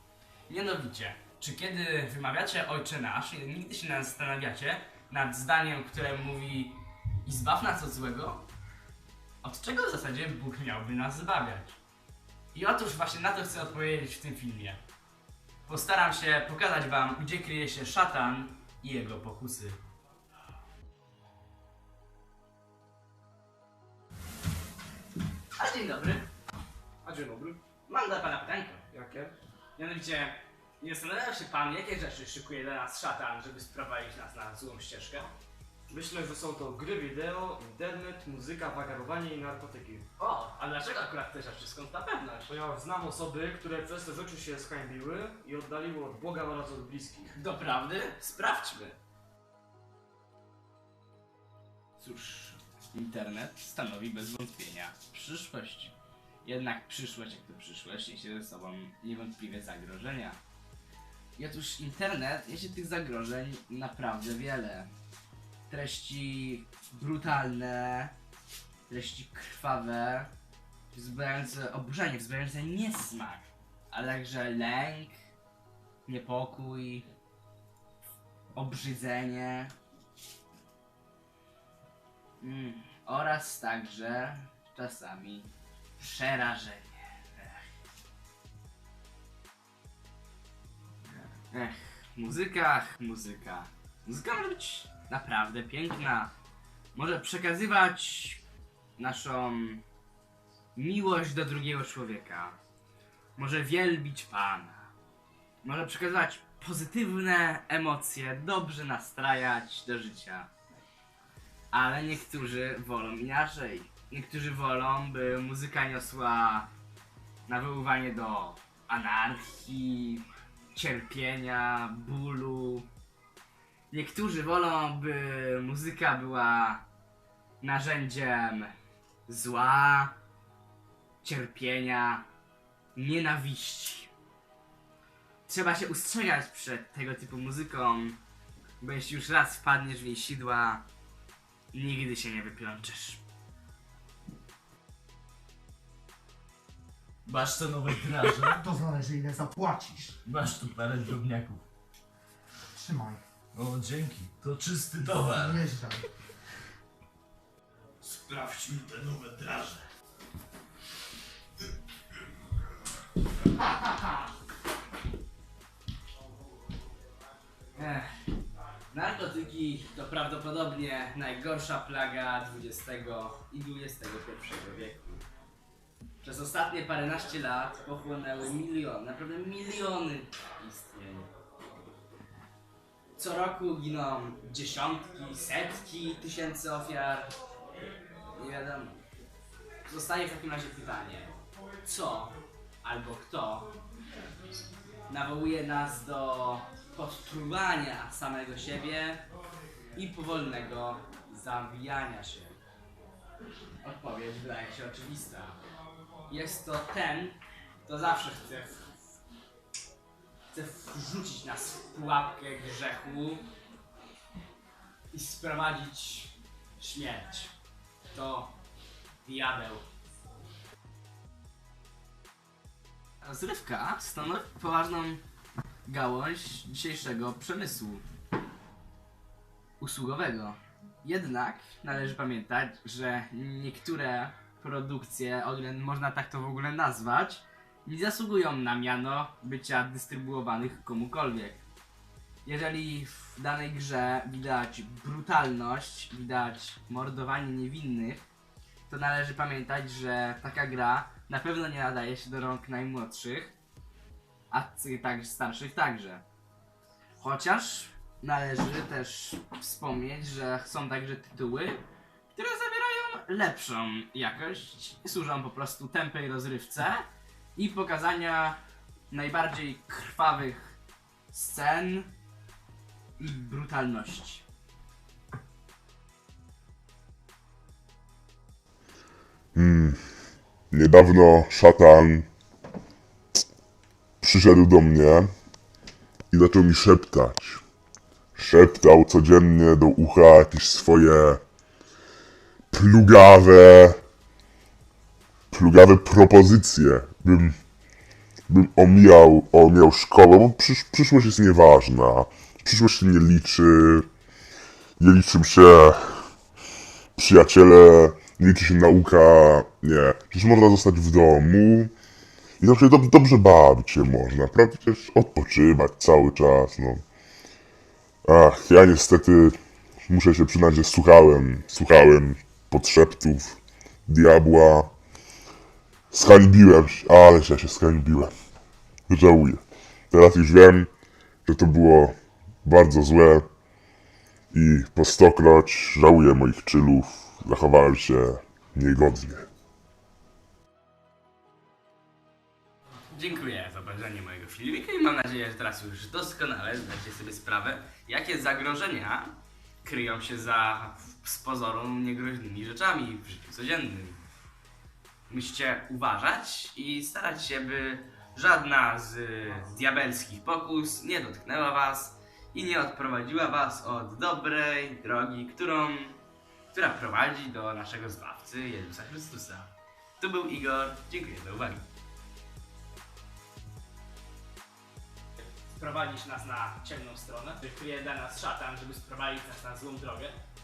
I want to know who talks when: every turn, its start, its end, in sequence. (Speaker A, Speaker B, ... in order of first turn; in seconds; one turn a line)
Speaker A: 0.5-8.4
Speaker A: 9.4-11.8
Speaker A: 12.5-14.8
Speaker A: 15.7-19.8
Speaker A: 25.6-26.3
Speaker B: 27.0-27.6
Speaker A: 27.9-28.9
Speaker B: 28.9-29.3
Speaker A: 29.8-35.3
Speaker B: 35.9-40.0
Speaker A: 40.2-42.5
Speaker B: 42.5-47.3
Speaker A: 47.3-49.0
Speaker A: 52.0-60.4
Speaker A: 61.4-64.9
Speaker A: 65.7-68.1
Speaker A: 68.9-70.3
Speaker A: 70.9-75.2
Speaker A: 76.0-77.1
Speaker A: 78.5-79.7
Speaker A: 82.4-87.7
Speaker A: 91.0-96.3
Speaker A: 96.9-98.4
Speaker A: 99.0-99.8
Speaker A: 100.7-102.5
Speaker A: 103.3-104.9
Speaker A: 105.6-110.5
Speaker A: 111.7-116.7
Speaker A: 117.5-122.9
Speaker A: 123.9-126.8
Speaker A: 127.6-128.7
Speaker A: 129.3-130.2
Speaker A: 131.2-132.3
Speaker A: 132.9-134.1
Speaker A: 135.4-138.2
Speaker A: 138.8-140.8
Speaker A: 141.7-143.2
Speaker C: 147.2-148.7
Speaker D: 148.7-150.1
Speaker C: 150.2-151.6
Speaker D: 152.8-153.2
Speaker C: 153.5-155.8
Speaker D: 155.6-156.0
Speaker C: 158.0-159.8
Speaker A: 167.8-168.1
Speaker A: 168.9-175.2
Speaker A: 176.2-181.3
Speaker A: 183.2-187.3
Speaker A: 188.3-189.0
Speaker A: 189.8-193.7
Speaker A: 195.1-199.2
Speaker A: 199.9-202.6
Speaker A: 203.8-205.6
Speaker A: 206.3-208.9
Speaker A: 210.5-213.4
Speaker A: 215.1-217.5
Speaker A: 218.1-218.5
Speaker A: 219.2-219.8
Speaker A: 223.2-225.2
Speaker A: 225.8-228.0
Speaker A: 229.8-241.6
Speaker A: 242.4-248.2
Speaker A: 248.9-253.5
Speaker A: 254.5-256.2
Speaker A: 257.2-268.6
Speaker A: 269.1-270.8
Speaker A: 271.3-272.1
Speaker A: 273.2-274.4
Speaker E: 279.5-280.0
Speaker E: 280.7-282.3
Speaker E: 284.2-285.3
Speaker E: 286.3-287.6
Speaker E: 288.4-291.4
Speaker E: 292.7-294.0
Speaker E: 295.5-297.6
Speaker E: 298.5-304.1
Speaker E: 305.0-306.3
Speaker E: 307.1-311.9
Speaker E: 312.6-317.0
Speaker E: 318.2-324.9
Speaker E: 326.1-328.3
Speaker E: 329.1-330.9
Speaker E: 331.4-333.5
Speaker E: 334.5-339.5
Speaker A: 343.1-354.2
Speaker A: 355.3-366.2
Speaker A: 366.7-371.9
Speaker A: 375.6-380.4